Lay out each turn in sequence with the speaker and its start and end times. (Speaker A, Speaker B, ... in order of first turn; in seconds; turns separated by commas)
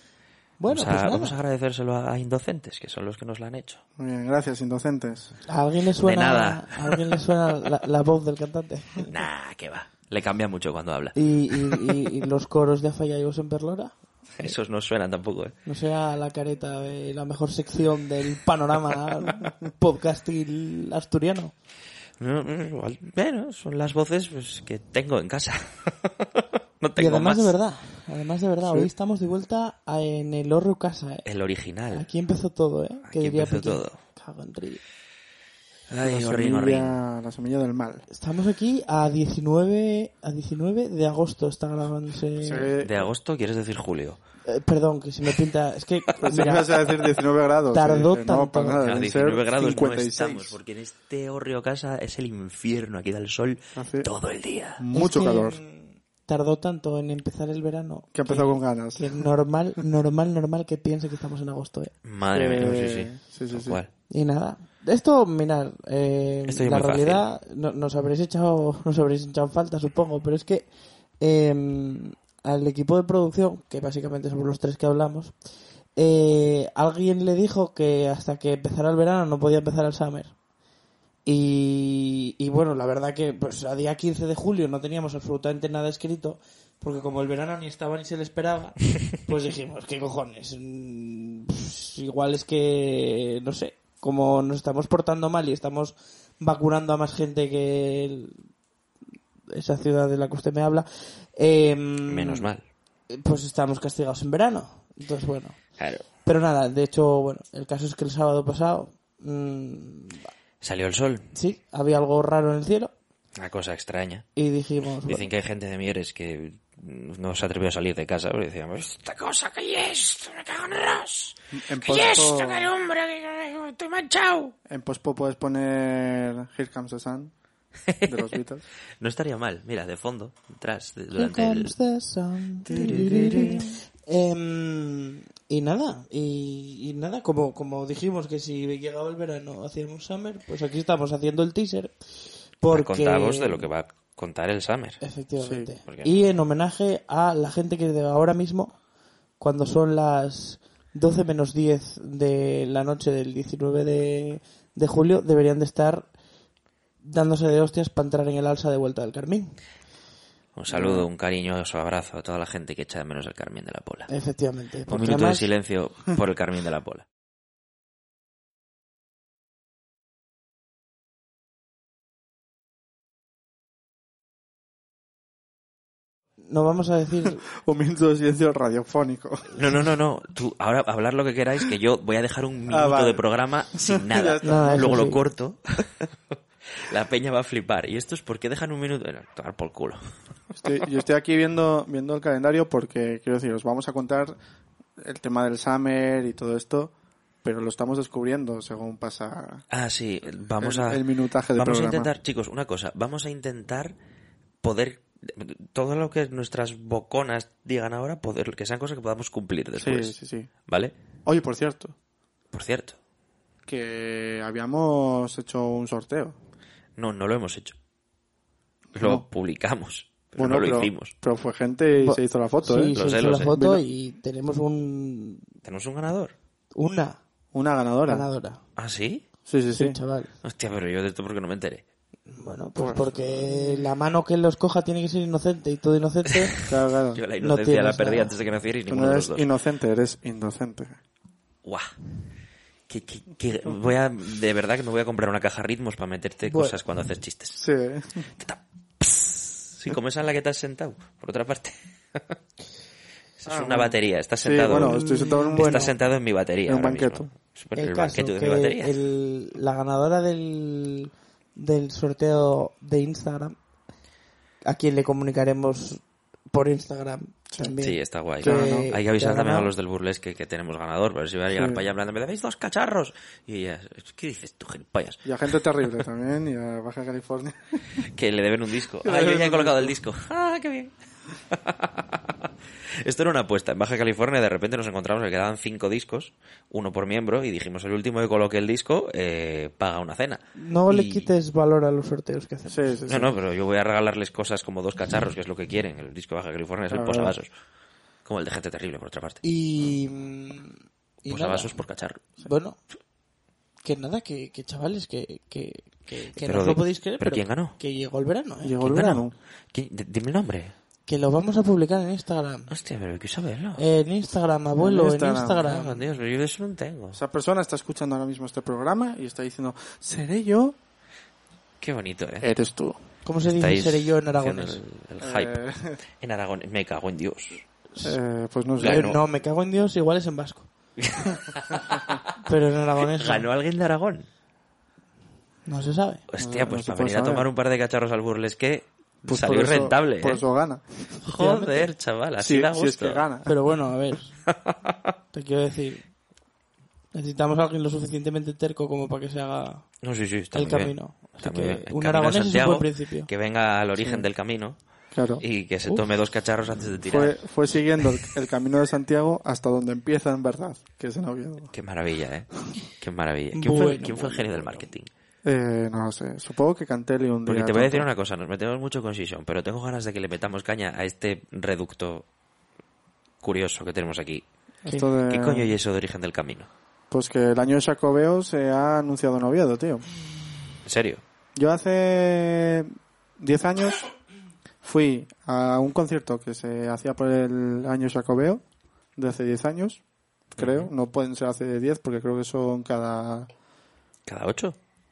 Speaker A: 0.6-1.4, Speaker B: 0.7-3.8, Speaker C: 4.0-5.3, Speaker A: 5.5-9.1, Speaker B: 6.0-7.2, Speaker B: 9.1-12.0, Speaker A: 11.2-14.5, Speaker B: 14.4-15.6, Speaker A: 15.7-21.5, Speaker B: 22.2-27.5, Speaker A: 27.0-31.3, Speaker B: 31.2-32.1, Speaker A: 31.9-34.8, Speaker B: 33.1-34.0, Speaker B: 35.9-37.0, Speaker C: 36.0-38.1, Speaker A: 38.1-42.7, Speaker C: 42.4-43.1, Speaker B: 42.8-44.2, Speaker A: 44.5-46.7, Speaker C: 46.2-50.5, Speaker A: 47.7-48.8, Speaker B: 48.8-54.8, Speaker C: 53.8-54.1, Speaker C: 54.8-55.6, Speaker A: 54.9-61.9, Speaker C: 58.1-59.2, Speaker B: 62.0-63.9, Speaker C: 62.3-63.8, Speaker A: 64.1-70.7, Speaker B: 66.5-67.3, Speaker A: 71.2-75.3, Speaker A: 76.0-80.3, Speaker A: 81.3-98.4, Speaker A: 99.5-102.5, Speaker B: 102.1-102.6, Speaker A: 103.1-105.6, Speaker B: 105.8-106.0, Speaker A: 106.2-110.2, Speaker B: 110.6-111.3, Speaker A: 111.3-112.9, Speaker B: 113.3-114.3, Speaker A: 114.4-115.3, Speaker B: 115.1-124.5, Speaker C: 121.5-122.7, Speaker C: 124.7-127.3, Speaker B: 127.9-128.3, Speaker C: 128.0-128.6, Speaker B: 129.0-131.7, Speaker A: 131.2-143.7, Speaker B: 132.7-133.7, Speaker B: 142.7-145.0, Speaker A: 145.0-148.8, Speaker C: 145.4-145.7, Speaker B: 145.9-146.2, Speaker A: 149.4-156.1, Speaker A: 157.0-159.6, Speaker B: 160.6-164.1, Speaker C: 160.7-161.1, Speaker A: 164.1-165.5, Speaker B: 164.9-167.1, Speaker A: 176.5-177.4, Speaker C: 177.4-179.6, Speaker B: 179.6-185.9, Speaker C: 182.7-183.2, Speaker C: 183.8-185.0, Speaker A: 184.4-185.2, Speaker B: 186.8-190.0, Speaker C: 190.5-194.3, Speaker C: 195.0-196.9, Speaker C: 197.4-199.6, Speaker B: 199.7-203.9, Speaker C: 200.6-202.1, Speaker B: 204.6-210.1, Speaker C: 209.8-210.5, Speaker B: 210.7-210.9, Speaker C: 211.3-211.9, Speaker B: 212.5-213.0, Speaker C: 213.7-216.3, Speaker B: 217.0-217.8, Speaker C: 218.9-219.2, Speaker B: 218.9-221.1, Speaker C: 220.4-222.9, Speaker A: 222.0-225.4, Speaker B: 222.9-223.5, Speaker C: 223.5-223.8, Speaker B: 225.6-226.3, Speaker A: 226.8-227.2, Speaker C: 227.5-228.3, Speaker A: 228.1-228.6, Speaker B: 228.8-229.2, Speaker C: 229.5-230.0, Speaker A: 229.7-230.3, Speaker B: 230.4-231.8, Speaker A: 232.3-236.6, Speaker C: 232.8-233.8, Speaker B: 236.6-239.5, Speaker C: 236.7-237.2, Speaker A: 237.4-238.3, Speaker C: 238.9-241.0, Speaker B: 241.6-241.9, Speaker B: 242.9-247.6, Speaker A: 246.5-246.8, Speaker C: 247.6-248.3, Speaker B: 248.4-252.4, Speaker B: 253.4-255.0, Speaker C: 253.5-255.9, Speaker A: 254.8-255.9, Speaker B: 255.6-258.9, Speaker C: 256.7-257.3, Speaker A: 257.8-263.6, Speaker A: 264.6-269.7, Speaker B: 267.8-275.3, Speaker C: 268.4-268.9, Speaker C: 271.5-271.8, Speaker C: 275.2-278.1, Speaker B: 278.0-280.9, Speaker C: 279.0-279.9, Speaker B: 281.5-282.3, Speaker B: 283.0-291.3, Speaker A: 290.6-292.9, Speaker C: 292.7-293.3, Speaker B: 293.1-297.5, Speaker C: 296.9-297.4, Speaker B: 298.2-299.4, Speaker A: 299.4-301.8, Speaker B: 301.3-302.2, Speaker A: 302.4-302.8, Speaker A: 303.8-308.8, Speaker B: 306.4-307.8, Speaker C: 308.6-309.3, Speaker B: 308.8-310.7, Speaker A: 311.1-312.7, Speaker B: 312.7-313.8, Speaker A: 313.8-316.0, Speaker C: 314.8-315.6, Speaker B: 315.6-317.2, Speaker C: 317.1-320.8, Speaker B: 321.8-322.5, Speaker C: 322.4-323.0, Speaker A: 323.2-324.8, Speaker B: 323.4-325.5, Speaker C: 325.2-326.0, Speaker B: 326.2-327.6, Speaker C: 328.0-329.2, Speaker B: 328.8-329.2, Speaker A: 328.8-330.7, Speaker B: 331.0-332.2, Speaker A: 332.4-333.5, Speaker B: 333.1-334.3, Speaker A: 335.7-336.2, Speaker B: 336.3-340.4, Speaker C: 336.4-337.5, Speaker C: 339.2-341.1, Speaker A: 341.2-341.9, Speaker B: 341.2-343.2, Speaker C: 342.4-343.5, Speaker A: 343.5-344.3, Speaker B: 344.5-344.8, Speaker A: 345.3-346.1, Speaker A: 347.1-349.9, Speaker B: 350.0-354.8, Speaker A: 350.5-353.3, Speaker C: 354.0-354.3, Speaker C: 355.1-355.4, Speaker B: 355.4-357.4, Speaker C: 357.1-361.7, Speaker B: 361.7-365.1, Speaker A: 363.6-364.2, Speaker C: 363.7-364.8, Speaker C: 365.4-368.1, Speaker B: 367.5-372.2, Speaker B: 373.4-374.4, Speaker C: 374.9-375.7, Speaker B: 375.3-376.7, Speaker C: 377.1-380.1, Speaker B: 380.8-381.2, Speaker C: 381.6-384.1, Speaker C: 384.8-388.6, Speaker C: 389.2-393.5, Speaker B: 390.6-390.9, Speaker B: 394.3-394.8